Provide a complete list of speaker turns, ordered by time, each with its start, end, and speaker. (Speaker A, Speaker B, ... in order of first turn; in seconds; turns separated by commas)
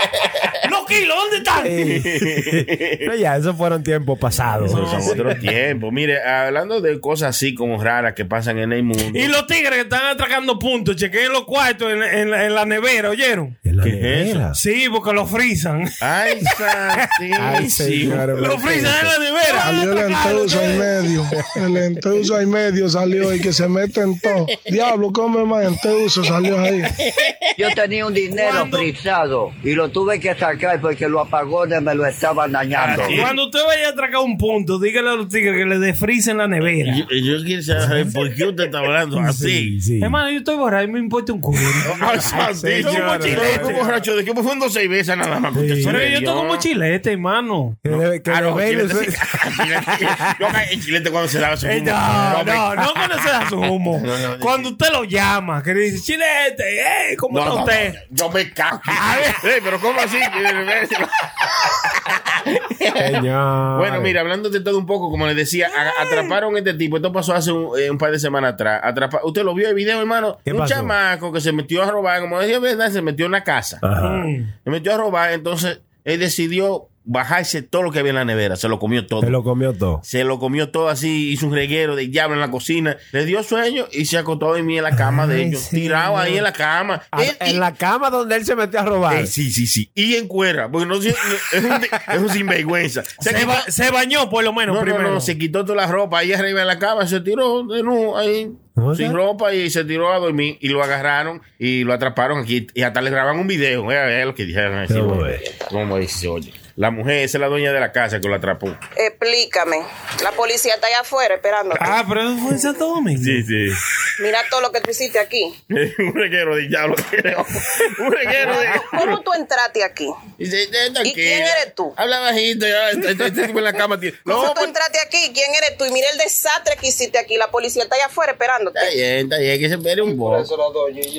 Speaker A: 0.6-1.8, Speaker B: 1.6-5.4, Speaker C: 1.8-3.1, Speaker C: 4.6-9.3, Speaker A: 4.6-5.4, Speaker A: 9.1-13.6, Speaker B: 13.6-14.6, Speaker C: 13.8-14.4, Speaker A: 14.5-16.0, Speaker C: 16.0-18.3, Speaker B: 17.4-19.1, Speaker A: 18.3-21.0, Speaker D: 19.6-26.9, Speaker B: 21.4-21.7, Speaker C: 27.0-27.4, Speaker E: 27.6-33.3, Speaker A: 28.3-28.9, Speaker C: 32.7-33.3, Speaker A: 33.1-37.1, Speaker C: 36.8-39.7, Speaker B: 37.7-38.1, Speaker B: 39.2-40.2, Speaker A: 40.0-42.0, Speaker C: 41.9-46.6, Speaker B: 42.0-43.9, Speaker A: 42.8-44.0, Speaker B: 45.5-46.1, Speaker A: 45.8-47.8, Speaker B: 47.9-50.4, Speaker C: 47.9-54.7, Speaker A: 51.6-58.0, Speaker C: 57.3-73.8, Speaker A: 58.9-59.4, Speaker B: 63.0-64.1, Speaker B: 70.5-70.9, Speaker B: 73.8-74.3, Speaker A: 74.0-74.5, Speaker C: 74.6-79.3, Speaker B: 79.2-80.0, Speaker C: 80.0-87.6, Speaker B: 84.9-86.4, Speaker B: 87.1-89.3, Speaker C: 89.1-93.7, Speaker A: 93.2-95.3, Speaker C: 94.7-108.8, Speaker B: 98.8-99.2, Speaker B: 104.9-105.4, Speaker F: 109.0-112.0, Speaker A: 111.8-113.5, Speaker C: 113.2-113.8, Speaker F: 114.2-115.5, Speaker C: 115.7-119.2, Speaker F: 118.3-120.2, Speaker C: 120.4-124.7, Speaker F: 121.0-121.9, Speaker F: 124.2-128.9, Speaker C: 128.7-130.5